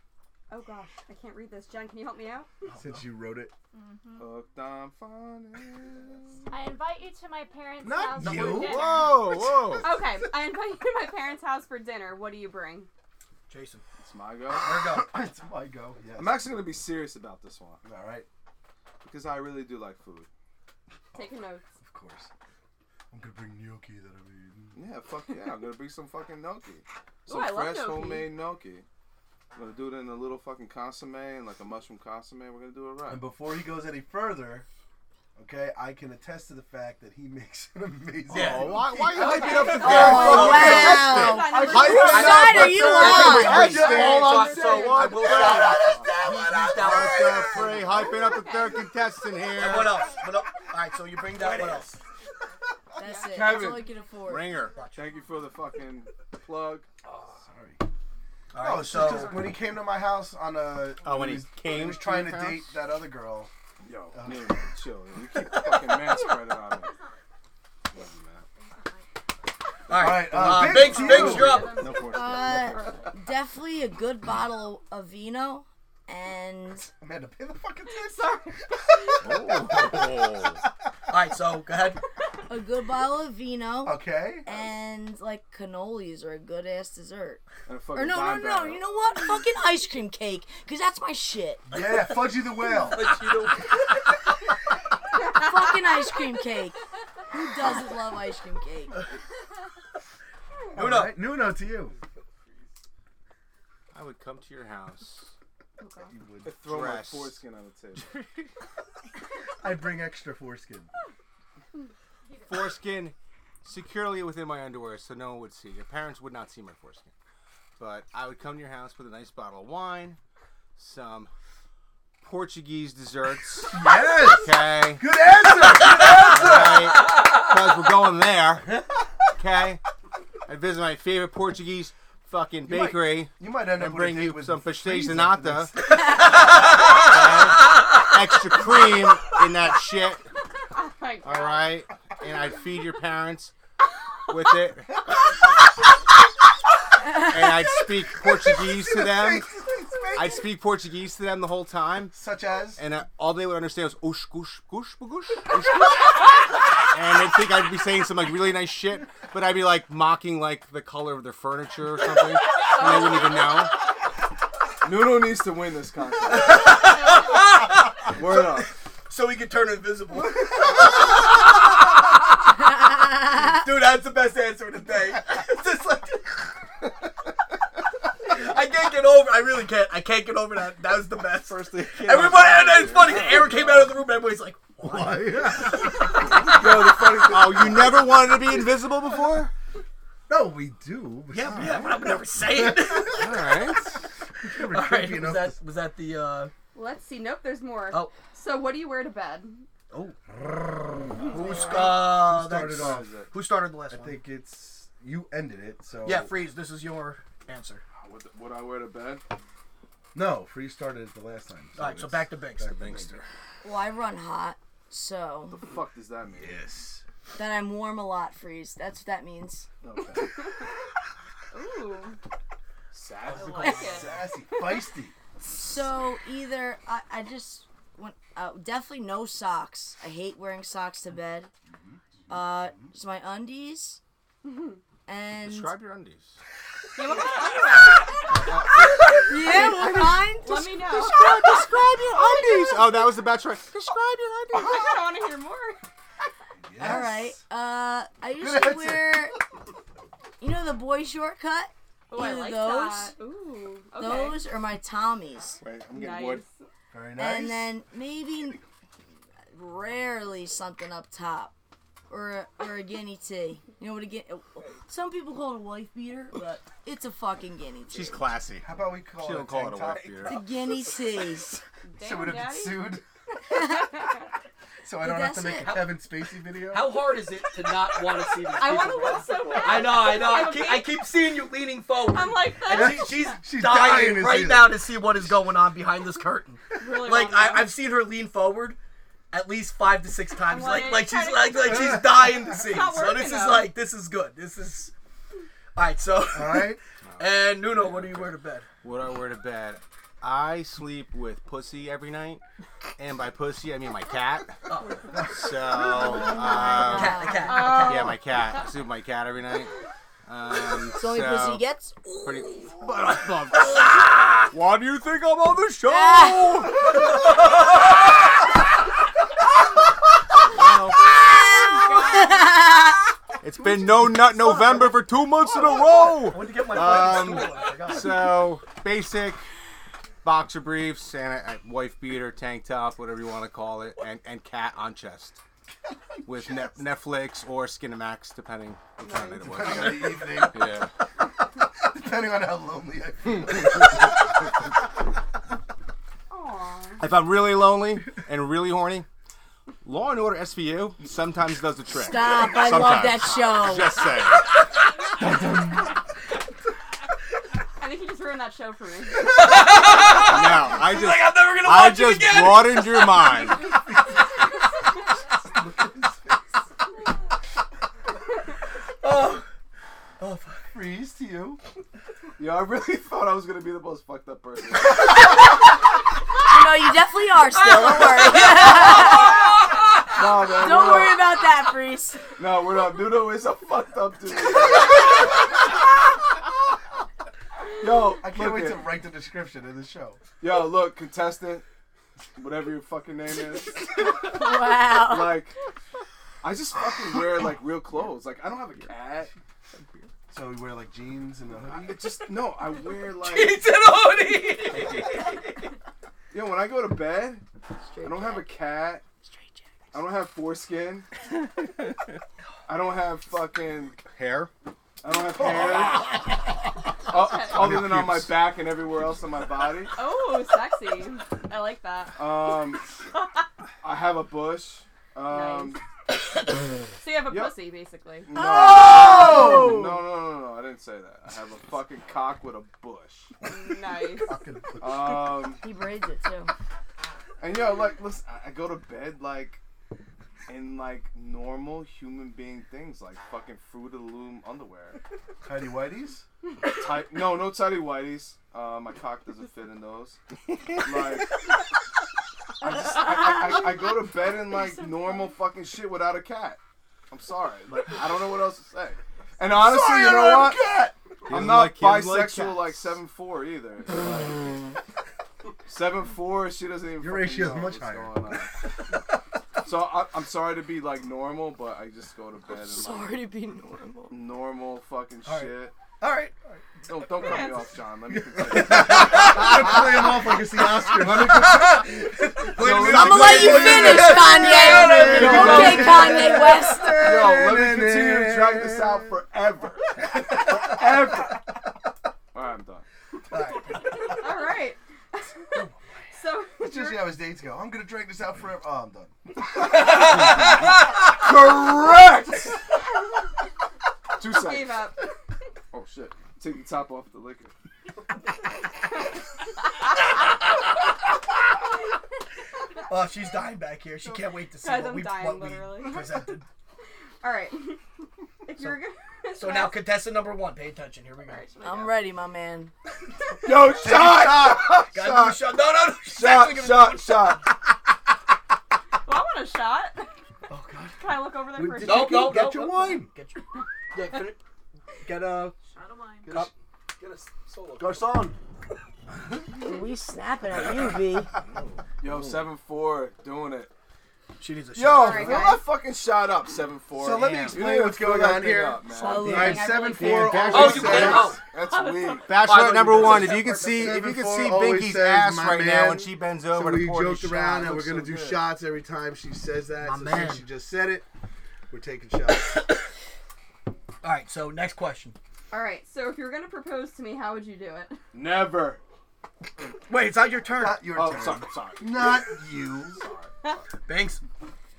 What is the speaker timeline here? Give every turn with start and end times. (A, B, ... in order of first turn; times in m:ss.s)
0:00.5-0:02.5 A
0:02.7-0:03.5 B
0:03.7-0:04.4 C
0:04.2-0:06.5 D
0:06.5-0:09.4 C
0:07.8-0:08.9 B
0:08.2-0:08.9 E
0:08.7-0:09.9 F
0:09.8-0:12.9 A
0:13.5-0:13.8 E
0:14.0-0:14.8 D
0:14.5-0:15.2 E
0:14.7-0:16.5 B
0:16.2-0:17.8 D
0:17.8-0:18.3 B
0:19.0-0:20.3 D
0:21.1-0:21.7 A
0:21.8-0:22.3 B
0:23.1-0:24.8 B
0:24.7-0:28.9 D
0:27.3-0:28.3 A
0:29.6-0:33.3 D
0:33.1-0:34.7 B
0:35.4-0:47.9 B
0:38.3-0:45.9 F
0:38.3-0:41.2 E
0:39.1-0:42.4 A
0:39.8-0:43.7 G
0:40.0-0:40.5 D
0:41.8-0:47.9 E
0:46.7-0:50.0 F
0:47.9-0:48.8 A
0:49.6-0:52.0 E
0:53.0-0:54.7 G
0:53.0-0:53.6 A
0:53.3-0:54.0 D
0:54.2-0:54.8 F
0:54.5-0:55.3 C
0:54.8-0:55.1 E
0:54.9-0:56.9 D
0:57.4-0:57.8 B
0:58.5-0:59.4 E
0:58.6-1:03.5 B
0:59.1-0:59.4 C
1:01.0-1:02.8 F
1:03.8-1:07.0 D
1:04.1-1:04.5 B
1:06.1-1:07.2 C
1:07.9-1:08.4 D
1:08.5-1:09.1 C
1:09.9-1:11.8 E
1:09.9-1:11.8 B
1:10.4-1:12.9 D
1:10.7-1:13.1 A
1:12.0-1:16.9 G
1:17.0-1:20.0 B
1:19.2-1:20.6 F
1:21.1-1:22.0 E
1:22.5-1:27.4 G
1:23.8-1:24.5 B
1:27.7-1:28.8 D
1:27.9-1:31.6 G
1:31.7-1:33.1 B
1:31.7-1:32.0 E
1:32.7-1:33.9 E
1:35.2-1:36.8 G
1:37.3-1:39.0 G
1:40.7-1:42.0 B
1:40.8-1:41.2 E
1:43.9-1:45.3 F
1:45.8-1:46.1 A
1:46.1-1:46.6 B
1:46.4-1:48.2 D
1:46.7-1:47.4 F
1:48.0-1:48.5 F
1:49.6-1:50.9 B
1:52.3-1:52.8 C
1:52.5-1:57.1 F
1:57.8-2:00.2 F
2:00.8-2:01.3 F
2:02.2-2:05.1 F
2:03.7-2:07.0 B
2:06.0-2:08.8 F
2:09.4-2:09.8 F
2:10.5-2:15.8 F
2:12.6-2:16.0 B
2:16.9-2:20.2 F
2:20.7-2:21.7 A
2:21.2-2:23.5 F
2:24.3-2:25.2 F
2:27.2-2:29.6 F
2:28.6-2:30.5 B
2:30.1-2:32.2 F
2:32.1-2:32.8 B
2:32.8-2:36.3 F
2:36.9-2:43.7 F
2:44.8-2:46.8 D
2:46.4-2:51.4 E
2:48.1-2:48.7 D
2:53.4-2:56.3 E
2:58.2-3:05.9 E
3:01.5-3:04.0 D
3:04.8-3:06.1 B
3:06.5-3:08.4 D
3:07.2-3:09.5 F
3:10.3-3:13.2 B
3:11.3-3:13.4 E
3:11.6-3:11.9 F
3:13.1-3:14.0 F
3:14.4-3:15.6 B
3:14.6-3:16.5 E
3:16.7-3:19.7 A
3:19.9-3:21.4 B
3:21.3-3:21.7 A
3:21.3-3:24.2 E
3:21.4-3:22.0 D
3:21.9-3:23.2 B
3:22.7-3:23.3 D
3:23.9-3:26.3 B
3:26.0-3:27.8 E
3:28.0-3:29.2 D
3:30.1-3:33.2 B
3:31.8-3:33.2 E
3:33.6-3:35.6 G
3:35.5-3:36.6 D
3:36.4-3:37.0 B
3:37.4-3:39.7 G
3:39.8-3:40.3 D
3:41.5-3:42.2 A
3:42.9-3:44.1 D
3:43.3-3:44.1 E
3:43.5-3:44.2 A
3:43.9-3:45.2 B
3:45.4-3:51.5 G
3:51.7-3:52.7 B
3:52.3-3:54.0 G
3:54.4-3:54.8 A
3:55.1-3:55.8 G
3:55.4-3:56.4 F
3:57.0-4:01.2 A
3:58.3-4:00.1 F
3:59.3-4:02.9 G
4:00.9-4:05.0 F
4:04.5-4:05.8 A
4:06.6-4:07.4 B
4:06.8-4:09.4 G
4:08.4-4:09.3 B
4:10.4-4:13.1 G
4:12.1-4:14.4 A
4:14.0-4:15.6 G
4:15.6-4:16.4 D
4:15.9-4:16.5 A
4:16.9-4:17.8 B
4:17.2-4:18.6 G
4:19.5-4:21.5 G
4:22.1-4:28.3 G
4:27.9-4:30.4 F
4:28.6-4:30.3 B
4:30.2-4:31.6 G
4:31.9-4:33.0 A
4:32.0-4:33.0 B
4:33.5-4:34.0 G
4:34.8-4:36.9 B
4:35.0-4:35.8 G
4:35.6-4:36.0 E
4:36.7-4:48.8 E
4:38.5-4:41.0 A
4:42.1-4:43.4 A
4:42.6-4:45.0 B
4:46.8-4:47.7 A
4:49.3-4:54.9 E
4:50.4-4:53.7 A
4:55.8-4:58.7 E
4:56.3-4:56.8 B
4:57.1-4:58.3 F
4:58.8-5:02.4 F
5:03.0-5:04.6 F
5:04.7-5:05.2 E
5:05.2-5:09.7 F
5:05.8-5:07.7 G
5:06.7-5:08.2 E
5:07.3-5:08.2 A
5:10.3-5:11.7 F
5:10.9-5:12.7 G
5:12.2-5:17.0 F
5:15.8-5:16.7 G
5:20.5-5:21.1 F
5:21.0-5:23.1 G
5:21.6-5:22.6 A
5:23.4-5:29.4 F
5:23.6-5:24.5 B
5:26.2-5:28.4 E
5:30.2-5:35.4 F
5:36.2-5:40.9 F
5:39.0-5:40.0 A
5:39.5-5:40.9 B
5:41.6-5:44.1 B
5:46.3-5:47.0 A
5:47.0-5:49.1 F
5:49.8-5:54.5 F
5:52.0-5:54.0 G
5:57.8-5:59.4 A
5:59.2-6:03.6 E
6:00.2-6:03.7 F
6:05.6-6:06.4 B
6:09.0-6:09.5 E
6:10.2-6:10.7 E
6:10.7-6:11.6 B
6:12.4-6:15.1 D
6:16.4-6:19.5 G
6:17.6-6:19.2 E
6:20.1-6:21.3 D
6:20.4-6:22.2 G
6:22.4-6:25.1 D
6:27.8-6:29.0 D
6:28.2-6:30.2 B
6:30.4-6:31.7 D
6:32.4-6:34.4 D
6:34.2-6:35.4 G
6:34.9-6:35.6 D
6:36.4-6:39.3 D
6:39.7-6:40.1 F
6:40.3-6:42.1 B
6:41.7-6:43.7 D
6:43.2-6:45.6 E
6:46.3-6:47.4 D
6:47.8-6:48.6 G
6:48.0-6:49.0 D
6:49.9-6:51.1 D
6:52.7-6:54.1 D
6:54.0-6:54.5 F
6:55.0-6:56.2 D
6:57.1-7:00.0 D
6:57.1-6:58.5 F
6:57.2-6:57.6 A
7:00.0-7:02.7 A
7:02.2-7:02.8 D
7:03.8-7:05.8 D
7:05.2-7:05.8 A
7:07.0-7:08.3 A
7:07.3-7:07.5 D
7:08.3-7:13.4 D
7:08.4-7:10.0 G
7:08.8-7:09.9 B
7:13.4-7:14.4 A
7:14.2-7:15.3 B
7:14.8-7:15.6 D
7:15.3-7:16.5 G
7:17.4-7:19.6 D
7:20.5-7:25.0 D
7:25.4-7:26.2 B
7:26.6-7:30.2 D
7:30.8-7:31.4 D
7:32.6-7:40.7 D
7:39.5-7:41.0 B
7:41.3-7:43.0 F
7:41.3-7:44.5 D
7:45.7-7:48.6 D
7:47.0-7:48.2 B
7:49.6-7:53.2 D
7:52.5-7:54.2 G
7:54.1-7:55.7 D
7:55.2-7:56.4 E
7:56.9-7:59.6 D
7:57.2-7:57.8 A
7:58.1-8:01.7 B
7:58.9-8:00.1 E
8:00.9-8:02.0 D
8:01.1-8:06.5 E
8:02.5-8:04.4 D
8:02.7-8:04.2 F
8:02.9-8:07.0 G
8:04.0-8:09.2 B
8:05.0-8:06.2 D
8:07.0-8:11.4 D
8:12.3-8:12.8 D
8:13.3-8:14.2 E
8:13.9-8:17.2 A
8:16.6-8:19.1 B
8:19.7-8:20.5 E
8:21.1-8:22.6 D
8:24.2-8:24.9 D
8:24.3-8:25.0 A
8:25.7-8:27.5 D
8:32.9-8:36.5 E
8:34.6-8:36.0 A
8:37.2-8:37.8 A
8:38.4-8:39.8 A
8:39.4-8:41.4 E
8:41.2-8:42.0 A
8:41.6-8:42.7 G
8:43.4-8:45.5 D
8:43.4-8:44.9 B
8:44.9-8:47.4 E
8:46.0-8:47.5 D
8:49.0-8:50.1 A
8:50.5-8:51.0 B
8:51.0-8:52.4 A
8:51.6-8:54.4 E
8:51.7-8:53.1 B
8:55.0-8:55.6 E
8:55.7-8:56.4 C
8:56.3-8:56.5 B
8:56.3-8:57.8 E
8:57.8-8:58.4 B
8:59.6-9:01.3 G
9:02.0-9:03.7 D
9:04.4-9:05.6 E
9:04.8-9:13.4 D
9:05.0-9:05.7 A
9:07.0-9:11.4 B
9:07.1-9:07.7 F
9:08.9-9:10.5 G
9:09.3-9:12.4 A
9:10.5-9:11.4 E
9:12.2-9:18.4 F
9:12.4-9:13.7 E
9:13.6-9:21.1 B
9:19.8-9:20.4 E
9:21.7-9:22.6 B
9:24.0-9:25.2 E
9:25.5-9:28.0 A
9:28.1-9:28.8 D
9:29.9-9:31.0 E
9:30.5-9:33.0 B
9:30.9-9:32.3 D
9:32.8-9:33.6 D
9:33.9-9:34.2 E